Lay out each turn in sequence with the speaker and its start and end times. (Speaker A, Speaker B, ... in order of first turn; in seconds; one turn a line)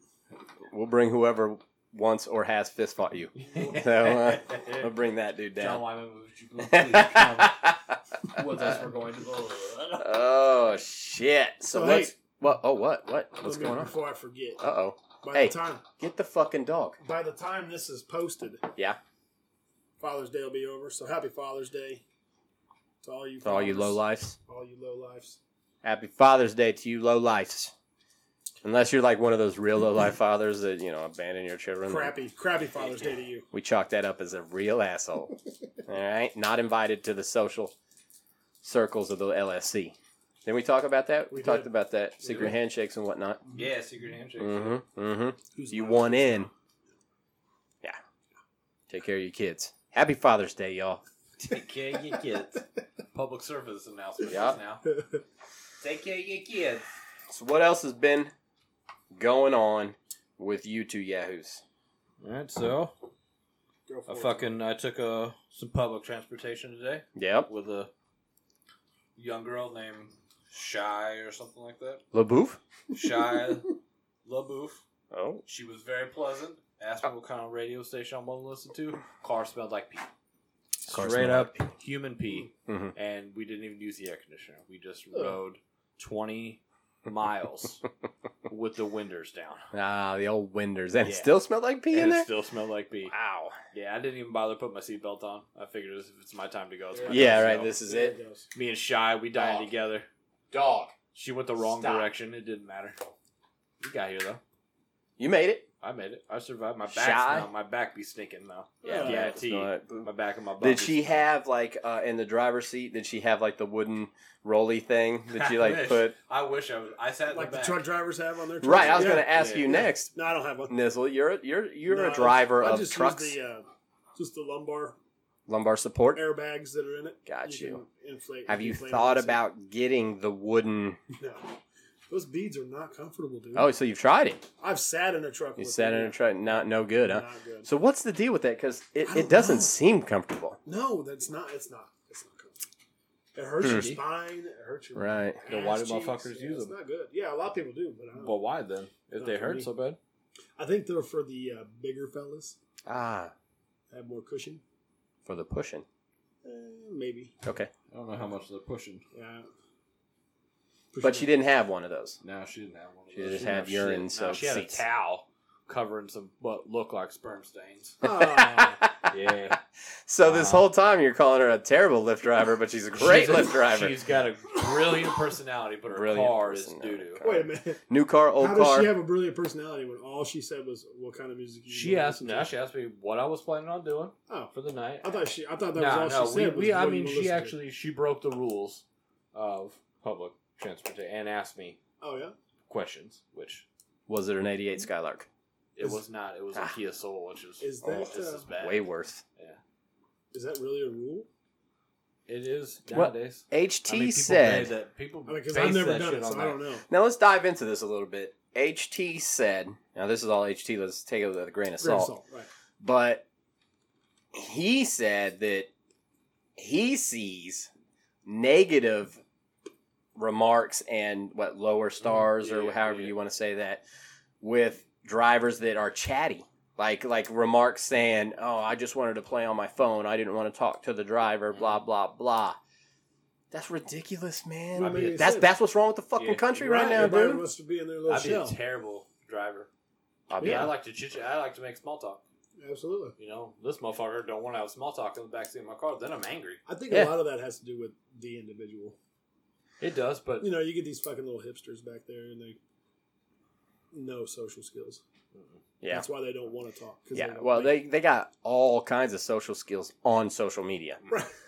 Speaker A: 0.7-5.8
Speaker B: 3.4-4.9
Speaker B: 5.6-7.6
Speaker A: 6.6-8.8
Speaker B: 8.3-10.1
Speaker A: 10.0-13.9
Speaker C: 11.7-12.2
Speaker C: 13.4-14.6
Speaker A: 14.6-17.0
Speaker C: 15.2-15.8
Speaker C: 17.0-18.6
Speaker C: 20.0-22.0
Speaker C: 23.0-25.4
Speaker A: 23.4-24.4
Speaker A: 25.8-27.7
Speaker A: 28.6-32.1
Speaker C: 31.9-33.5
Speaker B: 32.8-33.1
Speaker A: 33.5-35.4
Speaker A: 35.9-37.8
Speaker A: 38.6-43.4
Speaker C: 41.3-41.7
Speaker B: 42.2-42.5
Speaker B: 43.5-44.8
Speaker A: 44.4-46.5
Speaker C: 45.5-46.5
Speaker A: 48.9-51.0
Speaker B: 51.4-54.9
Speaker A: 54.3-54.6
Speaker B: 55.8-56.8
Speaker A: 57.3-58.3
Speaker A: 59.1-61.6
Speaker B: 62.2-62.9
Speaker C: 63.9-64.5
Speaker B: 64.1-67.9
Speaker A: 67.2-67.5
Speaker B: 69.2-72.0
Speaker A: 72.1-72.6
Speaker B: 72.9-74.8
Speaker A: 75.1-75.4
Speaker B: 75.5-80.1
Speaker B: 80.9-87.8
Speaker A: 80.9-81.6
Speaker A: 82.7-82.9
Speaker B: 88.5-89.7
Speaker A: 89.7-92.3
Speaker B: 91.0-91.3
Speaker B: 91.9-93.1
Speaker A: 93.1-93.6
Speaker B: 93.7-97.8
Speaker C: 97.0-98.5
Speaker A: 97.1-98.2
Speaker B: 98.5-100.1
Speaker A: 99.3-99.7
Speaker A: 100.5-101.0
Speaker B: 101.0-103.1
Speaker A: 101.6-102.1
Speaker B: 103.8-104.4
Speaker A: 105.2-105.7
Speaker B: 105.8-111.1
Speaker A: 106.9-107.5
Speaker C: 108.8-109.3
Speaker A: 108.8-116.2
Speaker B: 115.3-117.8
Speaker C: 117.3-120.8
Speaker A: 118.6-120.1
Speaker B: 118.9-119.7
Speaker A: 120.7-123.4
Speaker C: 121.9-125.0
Speaker A: 125.5-126.2
Speaker C: 126.2-129.4
Speaker A: 127.3-127.8
Speaker A: 128.5-131.0
Speaker C: 131.2-131.6
Speaker C: 132.1-133.7
Speaker A: 133.6-134.4
Speaker C: 134.6-136.3
Speaker A: 135.6-140.6
Speaker C: 137.0-137.7
Speaker C: 139.1-139.8
Speaker C: 140.7-142.6
Speaker C: 143.3-148.4
Speaker A: 143.6-143.9
Speaker B: 143.6-144.0
Speaker A: 145.0-145.4
Speaker B: 145.5-146.7
Speaker B: 148.2-150.0
Speaker C: 149.2-149.7
Speaker C: 150.6-152.6
Speaker A: 152.9-153.3
Speaker C: 153.9-154.6
Speaker A: 155.2-155.8
Speaker C: 156.4-157.3
Speaker A: 157.4-157.7
Speaker B: 157.9-159.0
Speaker C: 159.1-159.5
Speaker C: 160.9-161.3
Speaker A: 161.0-162.2
Speaker B: 162.2-168.1
Speaker A: 163.1-164.8
Speaker C: 168.0-168.8
Speaker A: 168.0-174.0
Speaker B: 169.1-169.6
Speaker B: 170.2-170.7
Speaker B: 172.9-177.2
Speaker A: 175.9-178.9
Speaker C: 177.2-177.8
Speaker C: 178.4-182.5
Speaker B: 181.7-191.8
Speaker C: 184.3-187.6
Speaker C: 192.0-192.4
Speaker B: 192.7-193.7
Speaker A: 194.1-195.3
Speaker B: 195.8-199.6
Speaker C: 197.6-198.4
Speaker A: 198.6-199.2
Speaker C: 200.3-201.3
Speaker B: 202.3-206.6
Speaker A: 202.9-204.7
Speaker C: 205.3-206.9
Speaker A: 206.9-212.1
Speaker C: 211.8-212.5
Speaker A: 212.8-213.2
Speaker A: 214.3-215.7
Speaker A: 216.6-217.7
Speaker A: 218.2-219.2
Speaker A: 220.2-223.8
Speaker B: 222.0-223.2
Speaker A: 224.4-232.6
Speaker A: 233.5-237.4
Speaker C: 234.7-235.5
Speaker B: 234.8-235.3
Speaker B: 236.2-237.3
Speaker C: 236.6-238.6
Speaker B: 238.1-239.7
Speaker A: 240.3-240.7
Speaker B: 240.4-242.2
Speaker C: 240.4-240.7
Speaker C: 242.6-243.2
Speaker B: 243.2-246.6
Speaker C: 246.7-249.0
Speaker A: 246.9-247.2
Speaker B: 249.8-250.5
Speaker C: 250.4-252.6
Speaker C: 253.9-255.0
Speaker B: 255.3-255.6
Speaker A: 255.8-256.1
Speaker C: 255.9-257.8
Speaker A: 257.1-261.0